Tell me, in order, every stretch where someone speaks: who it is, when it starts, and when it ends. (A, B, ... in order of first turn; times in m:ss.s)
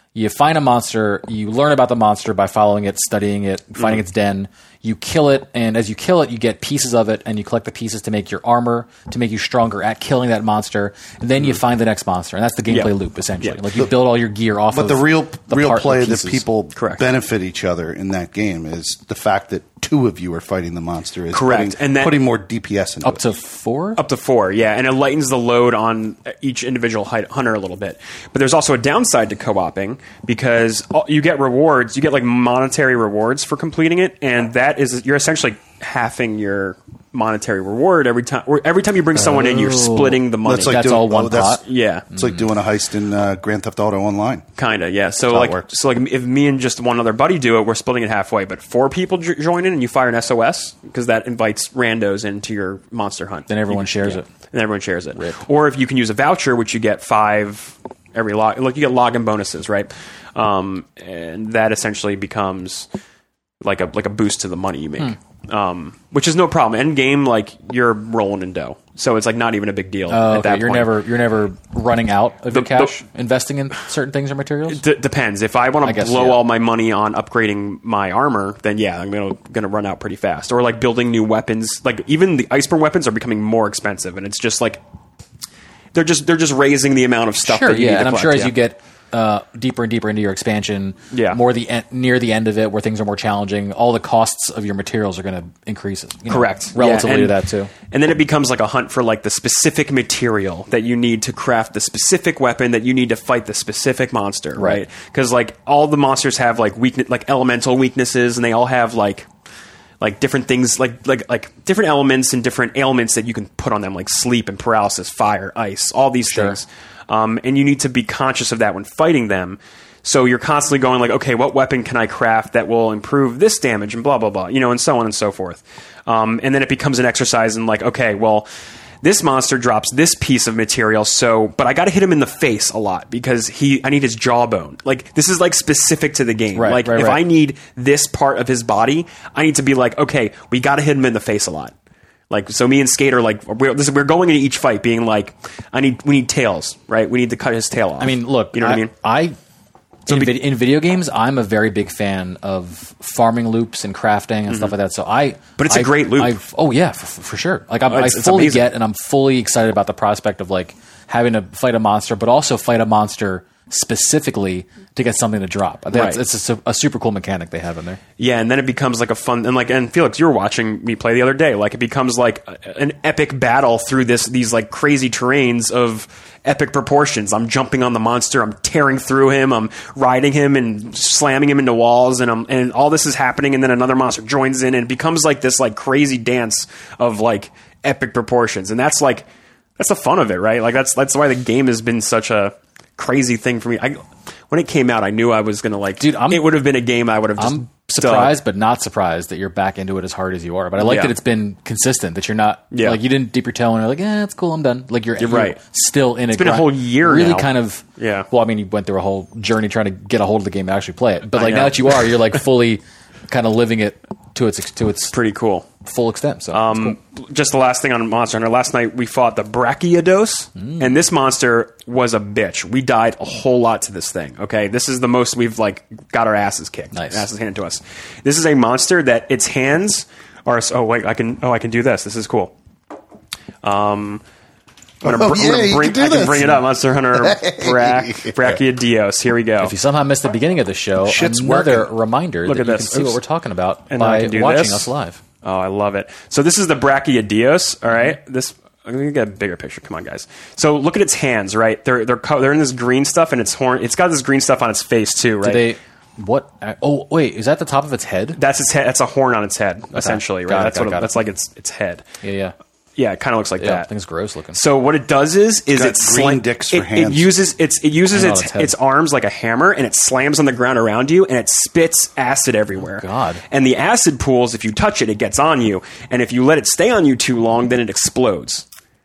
0:00.2-0:16.5 A
0:12.7-0:13.6 B
0:14.7-0:23.2 C
0:16.8-0:17.0 B
0:21.3-0:22.2 B
0:23.0-0:24.0 A
0:24.0-0:40.9 B
0:39.2-0:41.6 A
0:40.4-0:41.6 C
0:41.6-0:42.0 B
0:42.1-0:44.5 C
0:44.6-1:02.9 B
0:45.3-0:45.7 C
0:53.5-0:54.3 A
1:03.6-1:11.0 B
1:10.1-1:14.8 A
1:12.5-1:13.0 B
1:14.7-1:24.8 B
1:15.8-1:16.4 A
1:25.9-1:28.5 B
1:27.4-1:37.7 A
1:31.1-1:31.4 B
1:36.3-1:37.4 B
1:37.9-1:49.3 B
1:44.6-1:44.8 A
1:50.0-2:08.5 B
1:56.3-1:56.6 A
2:09.0-2:21.7 B
2:16.6-2:17.2 A
2:22.3-2:28.9 B
2:28.0-2:29.4 A
2:30.1-2:30.4 B
2:30.1-2:48.0 A
2:34.5-2:34.8 B
2:35.6-2:36.4 B
2:37.9-2:38.7 B
2:45.9-2:46.2 B
2:48.2-3:09.3 B
3:09.8-3:18.4 B
3:16.0-3:16.5 A
3:17.4-3:35.1 A
3:20.8-3:21.1 B
3:22.7-3:23.0 B
3:25.2-3:25.6 B
3:26.3-3:28.3 B
3:31.4-3:32.1 B
3:35.1-3:35.7 B
3:35.8-3:37.0 A
3:36.5-3:52.5 B
3:40.6-3:41.0 A
3:46.9-3:47.3 A
3:53.6-3:54.2 B
3:55.0-3:58.6 C
3:55.0-3:59.7 B
3:59.6-4:05.2 A
4:01.0-4:01.9 C
4:02.5-4:03.2 B
4:03.9-4:04.9 B
4:05.4-4:15.6 B
4:15.4-4:18.4 A
4:18.4-4:22.0 B
4:19.9-4:21.2 A
4:22.2-4:22.5 A
4:23.0-4:23.9 B
4:23.6-4:24.6 A
4:24.5-4:38.7 B
4:25.7-4:27.3 C
4:28.1-4:28.7 A
4:32.8-4:33.4 A